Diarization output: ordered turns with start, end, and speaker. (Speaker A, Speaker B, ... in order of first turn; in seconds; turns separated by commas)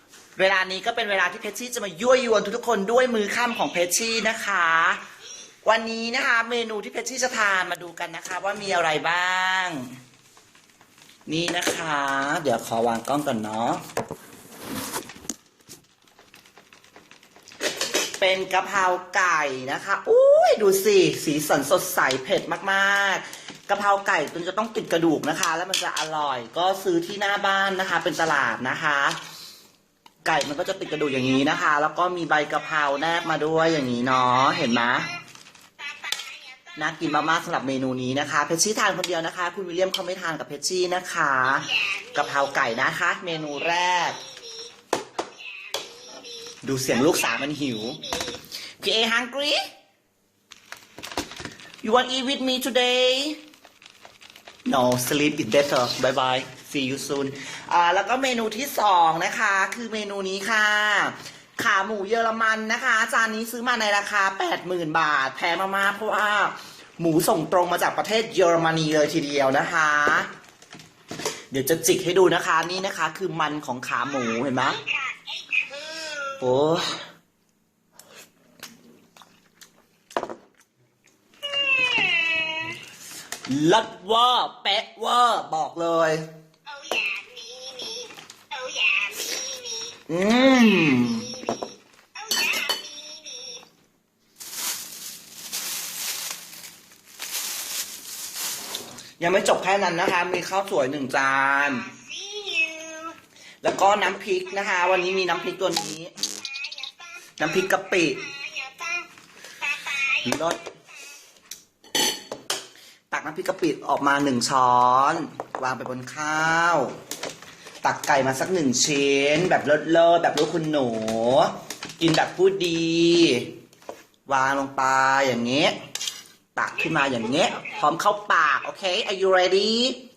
Speaker A: 0.3-5.0, Speaker A: 5.6-9.8, Speaker A: 11.3-13.8, Speaker A: 18.2-29.2, Speaker A: 30.2-35.1, Speaker B: 30.9-31.5, Speaker B: 34.2-35.2, Speaker B: 35.8-37.1, Speaker A: 36.8-44.2, Speaker B: 41.5-42.5, Speaker B: 43.3-48.4, Speaker A: 46.6-48.0, Speaker A: 48.8-49.6, Speaker A: 51.8-53.4, Speaker A: 54.6-70.3, Speaker A: 71.5-74.8, Speaker B: 74.1-76.4, Speaker A: 76.4-77.0, Speaker B: 81.4-82.8, Speaker A: 83.5-86.2, Speaker B: 86.7-93.6, Speaker A: 90.1-91.3, Speaker A: 99.2-101.9, Speaker B: 101.5-103.2, Speaker A: 103.6-106.1, Speaker B: 104.6-105.4, Speaker B: 106.2-110.9, Speaker A: 107.4-108.2, Speaker A: 110.2-110.6, Speaker A: 113.1-116.9, Speaker A: 117.8-123.5, Speaker A: 124.3-125.7, Speaker A: 126.5-130.0, Speaker B: 126.8-127.8